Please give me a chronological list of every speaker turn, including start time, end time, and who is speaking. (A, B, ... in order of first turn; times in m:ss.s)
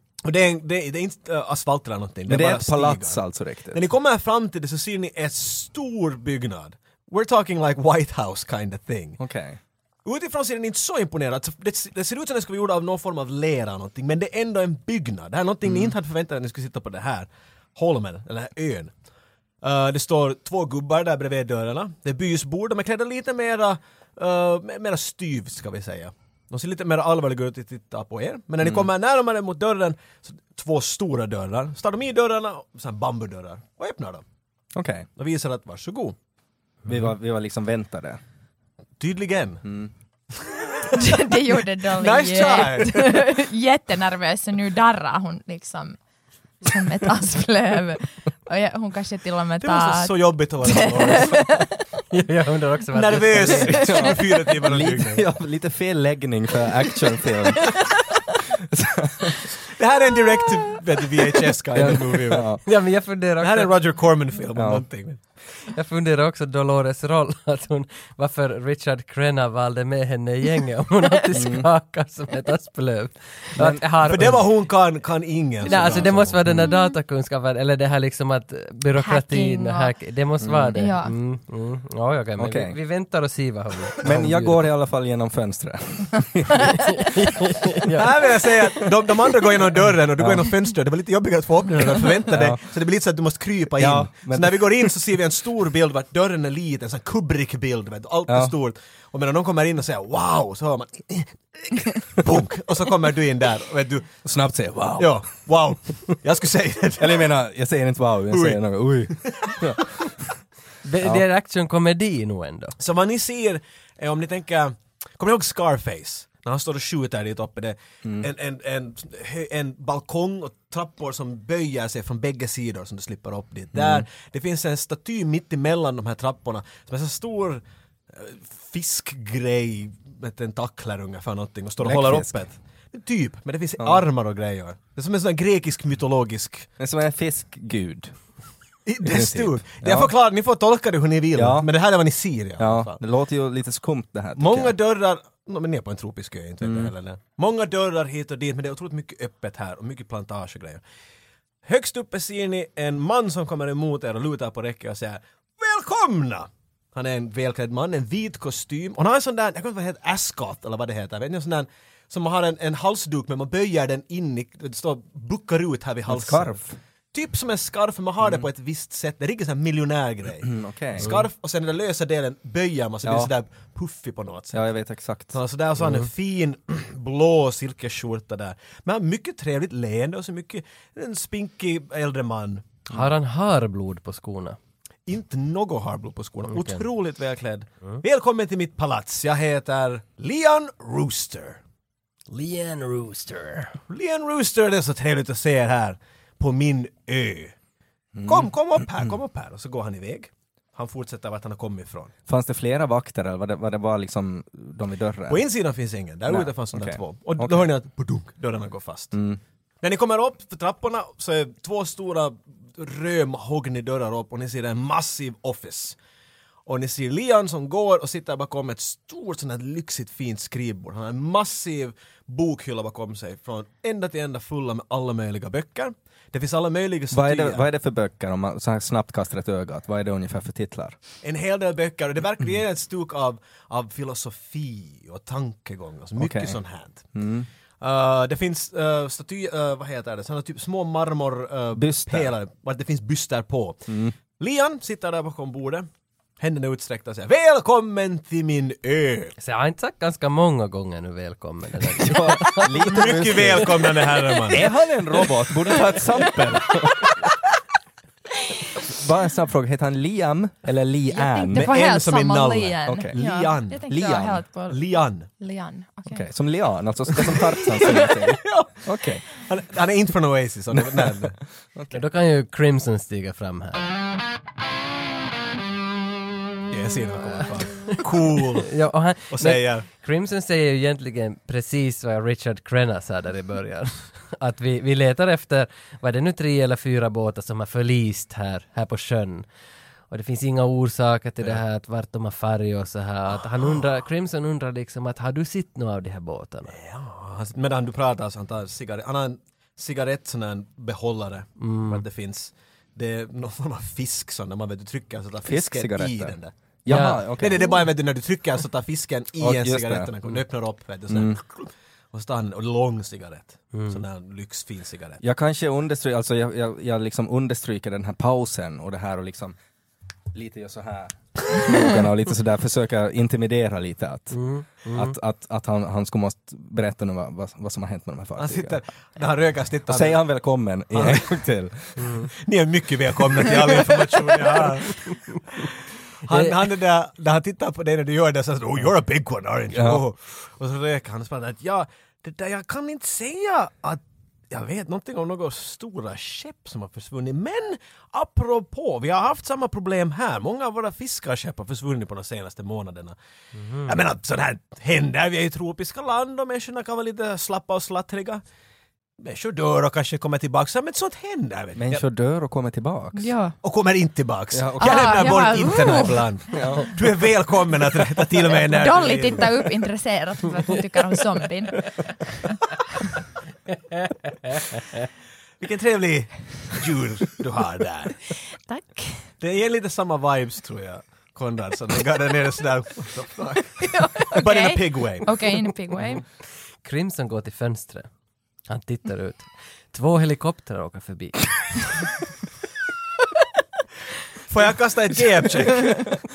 0:00.2-0:03.2 A
0:02.3-0:03.8 B
0:03.7-0:09.2 A
0:09.2-0:09.6 B
0:10.0-0:18.9 A
0:15.6-0:15.9 B
0:19.6-0:34.2 A
0:28.6-0:28.9 B
0:34.8-0:35.1 B
0:35.2-0:36.2 A
0:36.9-0:38.2 B
0:39.0-0:39.6 A
0:39.6-0:39.9 B
0:40.4-0:41.0 A
0:40.9-0:46.0 C
0:41.9-0:43.3 A
0:46.6-0:51.8 C
0:49.6-0:51.5 A
0:52.1-0:54.0 D
0:52.9-0:55.2 A
0:53.7-0:58.2 B
0:58.7-0:59.5 B
0:59.7-1:02.5 A
1:01.7-1:02.6 B
1:02.6-1:03.7 D
1:03.4-1:05.2 A
1:04.6-1:04.8 B
1:05.7-1:14.5 D
1:11.3-1:11.7 B
1:13.6-1:13.8 B
1:14.0-1:16.4 A
1:15.6-1:24.7 D
1:16.6-1:17.0 C
1:19.0-1:19.9 C
1:20.4-1:20.9 B
1:20.8-1:21.2 C
1:22.4-1:22.8 B
1:24.0-1:26.8 B
1:26.8-1:28.1 D
1:27.9-1:44.2 A
1:30.2-1:30.5 B
1:32.3-1:32.6 B
1:33.8-1:34.9 B
1:38.3-1:38.5 B
1:44.2-1:45.2 B
1:45.0-1:47.3 A
1:47.0-1:50.0 B
1:48.3-1:48.6 A
1:49.1-1:49.6 A
1:50.8-1:52.8 D
1:52.8-2:16.7 A
2:03.7-2:04.1 B
2:11.8-2:12.4 B
2:13.8-2:14.0 B
2:16.8-2:18.2 B
2:18.8-2:23.0 A
2:19.0-2:20.1 B
2:21.3-2:21.7 B
2:22.6-2:24.7 B
2:24.4-2:30.8 A
2:26.6-2:26.9 B
2:31.6-2:46.6 A
2:46.1-2:46.8 B
2:47.1-2:54.6 A
2:50.4-2:51.1 B
2:53.0-2:53.3 B
2:54.5-2:55.4 B
2:55.3-3:02.8 A
3:02.9-3:04.6 D
3:05.1-3:11.6 A
3:06.5-3:06.8 D
3:12.3-3:13.8 D
3:13.9-3:17.6 A
3:18.2-3:19.1 B
3:18.2-3:22.1 A
3:22.3-3:25.4 B
3:25.3-3:29.2 A
3:26.3-3:27.7 B
3:29.1-3:29.4 B
3:29.8-3:36.0 A
3:36.7-3:47.6 A
3:47.1-3:51.0 B
3:51.2-3:57.0 A
3:56.2-3:56.6 B
3:57.1-3:57.5 B
3:57.8-4:05.9 A
4:01.8-4:02.3 B
4:03.9-4:04.1 B
4:06.4-4:09.4 A
4:09.4-4:14.0 D
4:12.0-4:14.0 B
4:12.8-4:14.7 A
4:14.5-4:17.2 B
4:18.8-4:21.7 B
4:21.1-4:26.3 C
4:21.5-4:23.8 A
4:22.9-4:23.2 B
4:23.9-4:24.4 B
4:24.7-4:25.3 A
4:26.1-4:29.3 B
4:27.9-4:28.8 A
4:29.3-4:31.4 A
4:30.7-4:32.0 B
4:31.9-4:33.9 D
4:36.7-4:38.8 A
4:38.7-4:49.5 D
4:39.3-4:39.9 A
4:50.1-4:56.8 D
4:56.7-5:06.5 A
5:01.6-5:02.0 D
5:05.4-5:07.8 B
5:06.9-5:07.2 D
5:07.3-5:15.2 A
5:09.4-5:10.1 B
5:11.1-5:11.4 B
5:13.7-5:14.0 D
5:15.2-5:19.6 B
5:20.3-5:28.8 B
5:24.3-5:25.1 D
5:28.4-5:30.2 A
5:29.9-5:32.1 B
5:30.9-5:31.4 A
5:32.0-5:32.3 D
5:32.2-5:35.7 A
5:36.2-5:53.2 A
5:36.3-5:36.6 D
5:39.7-5:40.0 B
5:53.6-5:54.0 D
5:53.8-5:58.4 A
5:59.2-6:02.0 A
6:01.8-6:03.3 B
6:03.1-6:03.6 C
6:03.6-6:09.5 A
6:04.5-6:05.7 B
6:04.8-6:06.3 C
6:06.5-6:06.9 B
6:08.6-6:12.5 C
6:15.6-6:18.3 A
6:18.7-6:19.3 C
6:19.4-6:25.4 A
6:23.8-6:26.2 C
6:26.8-6:28.1 D
6:28.7-6:32.2 D
6:34.5-6:36.1 A